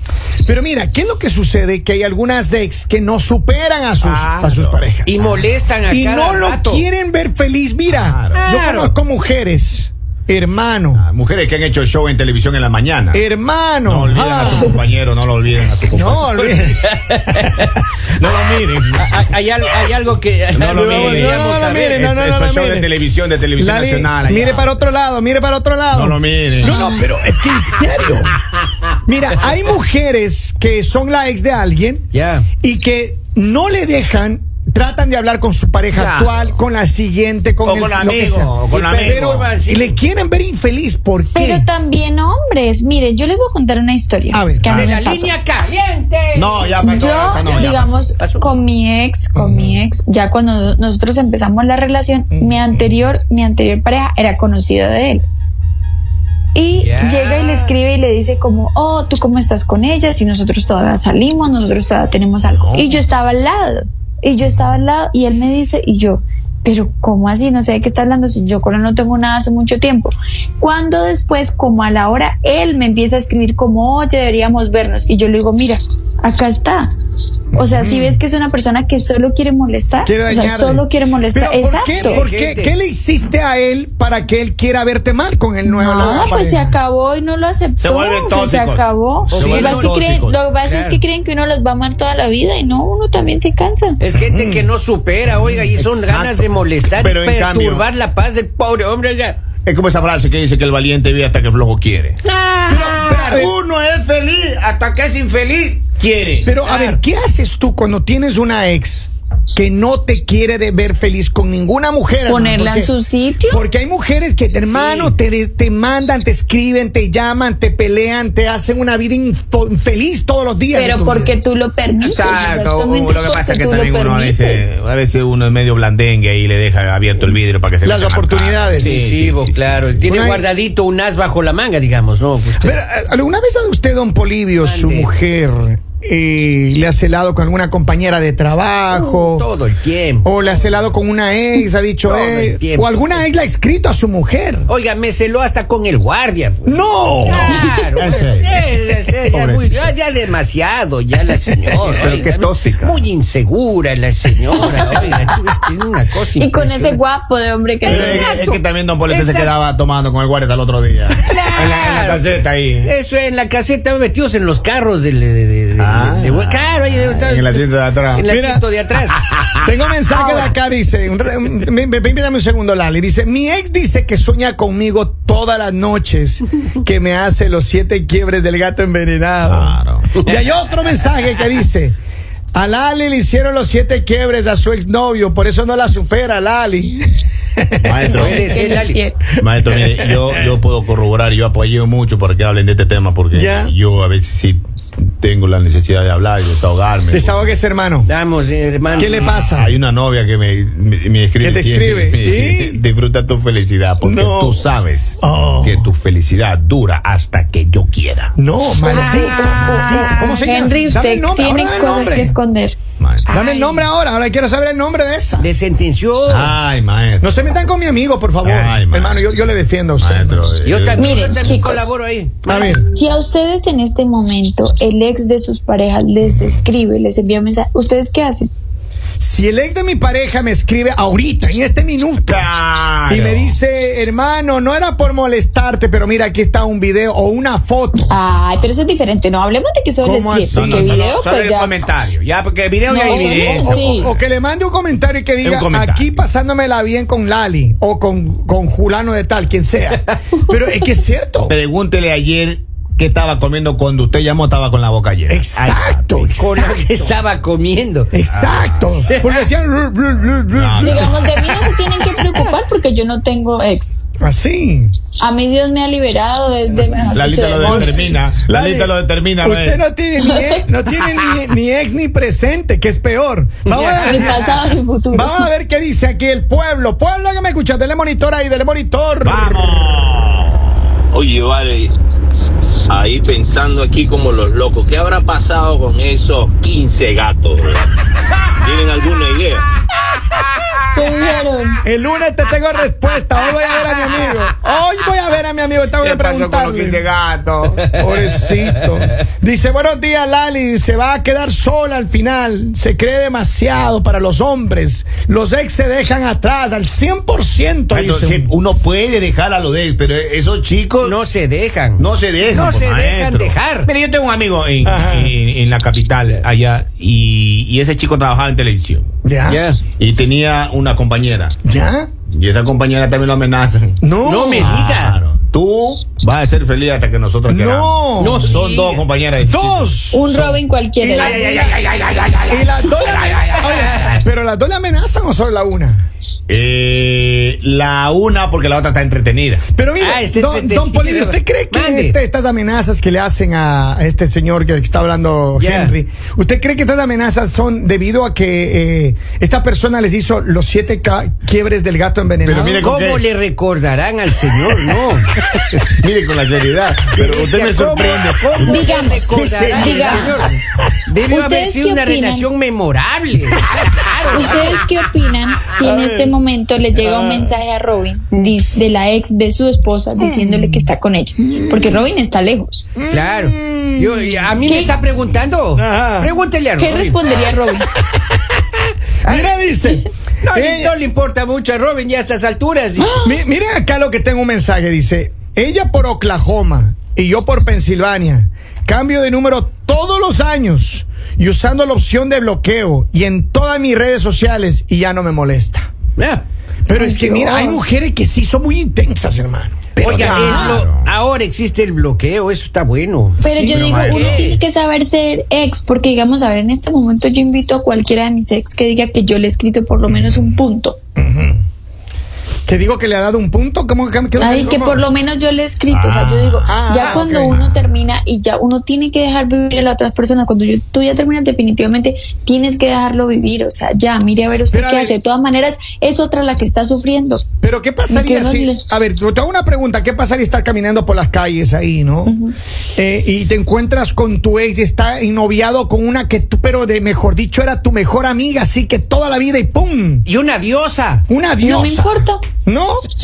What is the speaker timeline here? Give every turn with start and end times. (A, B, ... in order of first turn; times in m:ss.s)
0:00.4-0:05.2 A
0:04.0-0:05.4 B
0:05.0-0:06.8 C
0:05.9-0:11.0 A
0:07.9-0:08.4 B
0:08.4-0:08.9 C
0:10.9-0:13.2 B
0:13.1-0:14.8 A
0:13.8-0:16.6 B
0:14.4-0:14.8 D
0:15.9-0:16.8 A
0:16.6-0:17.7 C
0:18.2-0:19.2 B
0:18.3-0:18.9 A
0:18.9-0:22.1 C
0:20.5-0:24.7 B
0:20.7-0:22.9 A
0:23.6-0:28.4 A
0:25.9-0:26.8 B
0:26.6-0:27.0 D
0:29.0-0:32.1 A
0:32.1-0:32.5 C
0:32.6-0:41.7 A
0:35.9-0:36.6 B
0:37.6-0:39.4 B
0:38.7-0:40.0 C
0:41.3-0:45.4 D
0:44.3-0:44.8 A
0:44.7-0:48.5 C
0:46.3-0:48.1 B
0:46.8-0:55.2 D
0:49.3-0:49.8 A
0:52.3-0:52.9 A
0:56.5-1:16.9 D
0:56.7-0:57.7 C
1:02.4-1:03.0 B
1:17.5-1:18.2 A
1:17.5-1:22.2 D
1:20.0-1:26.8 A
1:21.8-1:22.8 C
1:25.6-1:34.0 D
1:27.8-1:30.4 B
1:29.3-1:30.0 C
1:30.5-1:31.0 C
1:34.0-1:39.4 C
1:34.2-1:34.7 A
1:35.6-1:37.8 B
1:39.6-1:42.2 B
1:42.2-1:43.5 C
1:42.7-1:43.5 A
1:42.9-1:46.5 B
1:46.4-2:01.3 A
1:46.7-1:47.0 C
1:52.2-1:53.6 D
1:54.6-1:55.1 C
2:00.7-2:04.6 D
2:02.0-2:10.1 B
2:07.8-2:09.0 A
2:08.8-2:12.8 C
2:10.0-2:10.4 A
2:12.6-2:19.5 A
2:14.6-2:15.2 C
2:18.9-2:20.8 C
2:20.2-2:24.7 A
2:22.0-2:23.2 C
2:24.7-2:37.0 C
2:26.6-2:27.6 A
2:27.3-2:28.6 B
2:29.3-2:29.8 A
2:31.8-2:33.0 B
2:36.4-2:38.5 D
2:37.9-2:38.2 A
2:37.9-2:42.9 B
2:37.9-2:38.1 C
2:39.1-2:39.5 C
2:41.2-2:49.3 C
2:45.8-2:48.2 B
2:48.2-2:48.6 A
2:49.6-3:02.0 A
2:50.1-2:50.5 D
2:59.5-3:00.2 B
3:02.5-3:07.1 A
3:07.6-3:08.8 A
3:07.8-3:08.8 B
3:08.0-3:09.2 D
3:08.2-3:09.0 C
3:09.4-3:17.6 B
3:09.5-3:10.6 A
3:13.3-3:13.7 A
3:17.1-3:18.1 A
3:18.0-3:19.5 C
3:18.9-3:19.7 A
3:19.1-3:28.3 B
3:21.4-3:22.8 A
3:24.0-3:25.9 A
3:28.4-3:32.4 A
3:28.8-3:30.3 C
3:28.9-3:30.4 B
3:29.8-3:32.8 D
3:33.0-3:33.3 B
3:33.2-3:33.9 C
3:33.3-3:35.5 A
3:35.4-3:36.5 C
3:36.3-3:37.5 B
3:37.2-3:40.5 A
3:38.4-3:39.2 B
3:40.0-3:41.5 B
3:40.6-3:42.7 C
3:41.0-3:41.9 D
3:42.4-3:42.8 A
3:42.5-3:48.5 D
3:49.2-3:58.1 A
3:52.2-3:53.6 B
3:58.1-4:01.7 D
4:00.0-4:01.0 A
4:00.5-4:04.2 B
4:02.9-4:04.1 D
4:03.0-4:11.6 A
4:05.4-4:06.2 B
4:11.5-4:16.4 B
4:15.3-4:16.8 A
4:16.4-4:18.1 C
4:18.1-4:21.5 A
4:18.3-4:19.2 B
4:20.5-4:21.5 B
4:20.8-4:24.0 D
4:24.2-4:24.9 A
4:25.2-4:28.1 D
4:27.1-4:29.8 B
4:27.6-4:39.6 A
4:30.2-4:30.6 D
4:33.7-4:34.4 C
4:34.0-4:35.4 D
4:39.2-4:40.7 B
4:41.1-4:41.9 E
4:42.9-4:47.8 E
4:48.6-4:49.6 E
4:50.9-4:51.8 D
4:51.8-4:57.0 A
4:56.0-4:57.8 B
4:57.8-5:08.5 A
4:58.0-4:58.5 C
5:07.9-5:11.2 B
5:11.0-5:13.9 C
5:12.0-5:19.1 B
5:14.8-5:15.3 A
5:19.2-5:19.6 A
5:19.5-5:19.8 C
5:20.0-5:21.5 B
5:21.6-5:22.1 A
5:22.3-5:24.0 B
5:24.0-5:24.8 A
5:24.2-5:25.2 C
5:24.6-5:30.5 B
5:27.5-5:28.6 A
5:28.2-5:29.0 C
5:29.4-5:31.8 A
5:30.1-5:31.6 D
5:31.2-5:34.2 B
5:32.5-5:36.1 A
5:36.5-5:39.6 B
5:39.7-5:52.8 A
5:40.0-5:42.2 C
5:45.6-5:45.9 C
5:52.4-5:53.2 B
5:52.8-5:55.3 C
5:55.8-6:00.3 B
5:57.1-6:00.5 C
5:58.6-6:00.5 D
5:59.3-6:00.6 A
6:01.1-6:04.8 C
6:01.3-6:02.5 D
6:04.3-6:12.9 D
6:05.8-6:06.4 A
6:07.0-6:07.6 A
6:08.3-6:08.8 A
6:10.2-6:10.9 A
6:11.4-6:12.0 A
6:12.9-6:15.0 A
6:13.1-6:17.2 C
6:14.6-6:14.9 D
6:15.7-6:16.3 A
6:16.8-6:17.8 D
6:19.2-6:19.5 C
6:19.2-6:20.9 A
6:20.4-6:23.2 C
6:23.1-6:35.9 A
6:36.2-6:36.4 C
6:36.9-6:40.8 A
6:36.9-6:37.8 D
6:40.0-6:44.6 C
6:40.0-6:41.1 B
6:43.4-6:51.0 D
6:43.4-6:43.9 A
6:43.7-6:44.5 B
6:51.2-6:51.6 A
6:52.7-6:55.0 A
6:54.4-7:07.4 D
6:55.9-6:57.8 B
6:56.7-6:57.6 A
7:04.7-7:05.2 A
7:07.6-7:12.3 A
7:08.1-7:08.8 D
7:12.3-7:12.5 D
7:13.0-7:20.2 A
7:20.2-7:21.2 C
7:21.3-7:23.0 A
7:21.6-7:22.4 D